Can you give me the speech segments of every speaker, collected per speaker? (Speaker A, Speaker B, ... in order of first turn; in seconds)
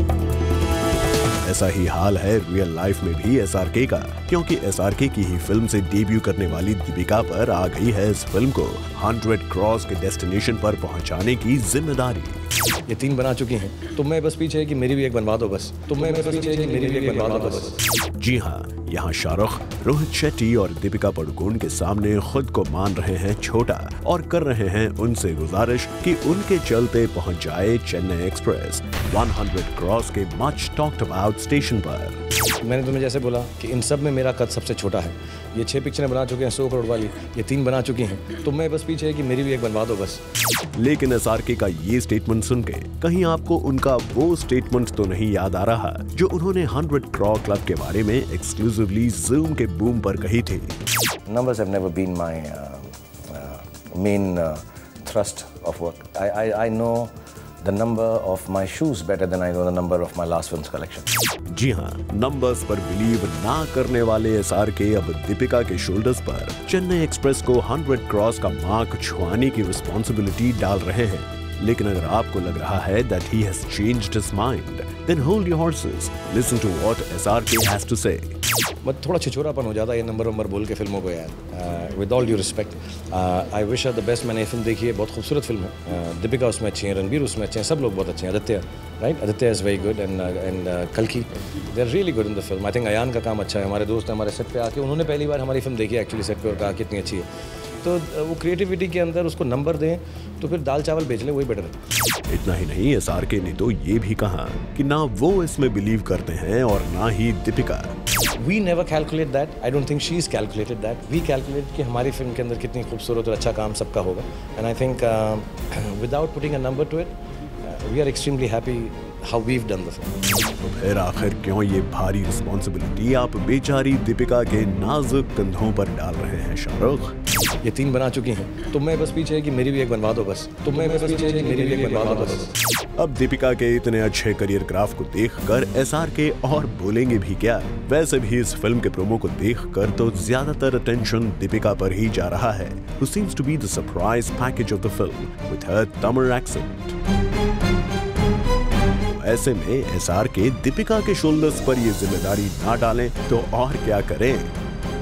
Speaker A: 1.4-12.4, 18.1-32.2, 40.7-50.8, 61.5-78.4, 102.3-107.9, 120.6-127.2, 133.0-146.9, 149.1-154.6
Speaker B: 12.9-17.8, 32.6-40.2, 51.3-61.1, 78.8-97.3, 97.8-101.7, 108.4-120.1, 127.6-132.5